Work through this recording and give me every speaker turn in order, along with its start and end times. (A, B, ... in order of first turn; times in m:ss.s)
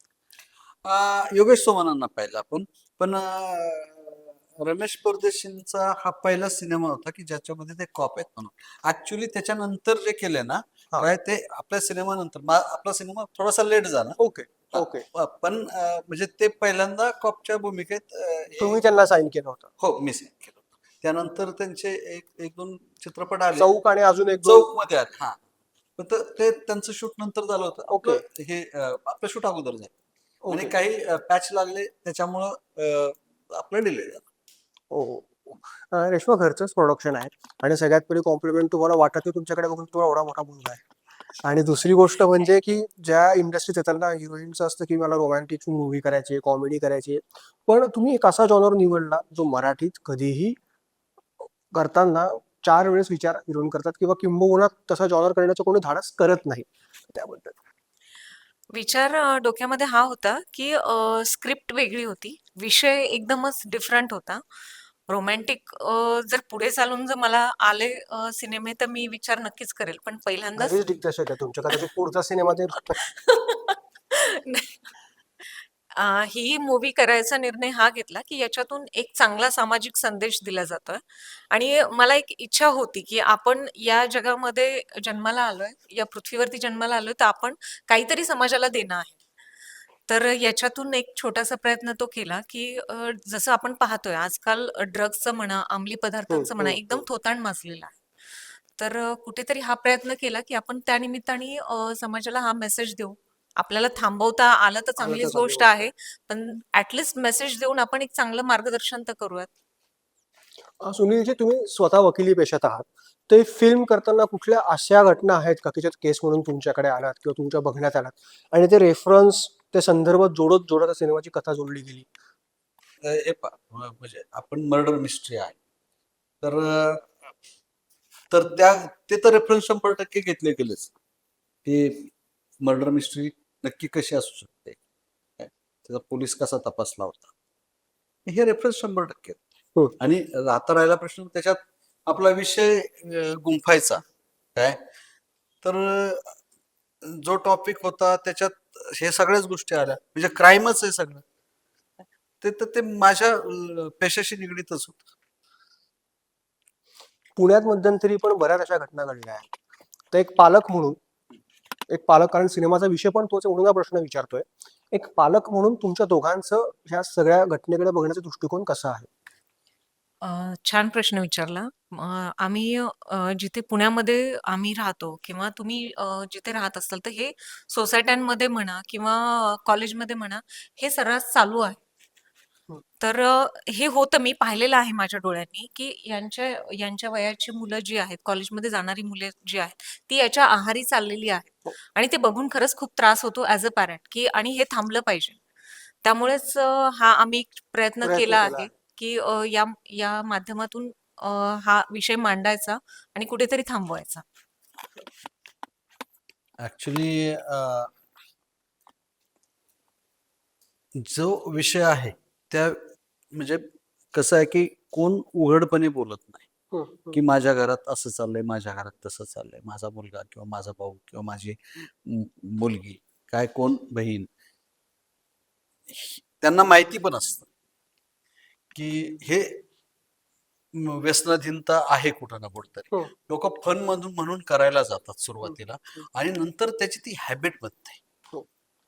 0:00.8-0:14.2 A
0:14.2-0:15.0 B
0:14.7-0:18.8 A
0:18.6-0:19.7 B
0:19.8-0:23.7 A
0:23.6-0:24.7 B
0:24.4-0:25.4 A
0:26.0-0:29.9 A
0:27.9-0:28.2 B
0:30.4-0:30.7 B
0:30.5-0:34.2 A
0:34.9-0:40.8 B
0:41.4-0:50.6 B
0:51.7-0:57.6 B
0:58.7-1:04.4 C
1:05.1-1:10.8 C
1:10.6-1:12.9 B
1:13.0-1:14.9 C
1:15.9-1:29.2 C
1:30.1-1:49.5 C
1:36.3-1:37.0 B
1:45.0-1:45.9 B
1:50.8-2:02.1 B
2:03.0-2:05.6 A
2:06.4-2:07.3 A
2:08.3-2:10.9 A
2:11.6-2:14.8 A
2:15.4-2:17.3 A
2:18.2-2:19.4 A
2:20.0-2:24.0 A
2:25.6-2:26.4 A
2:27.0-2:31.2 A
2:32.4-2:35.0 A
2:37.4-2:39.5 B
2:40.1-2:41.0 B
2:41.9-2:49.1 B
2:50.2-3:01.8 C
3:03.0-3:15.4 C
3:16.0-3:24.2 C
3:18.0-3:18.7 B
3:26.6-3:27.9 A
3:31.0-3:32.8 A
3:33.3-3:36.4 A
3:36.7-3:37.2 B
3:37.1-3:44.3 A
3:45.9-3:47.5 A
3:48.7-3:49.6 A
3:50.8-3:58.0 A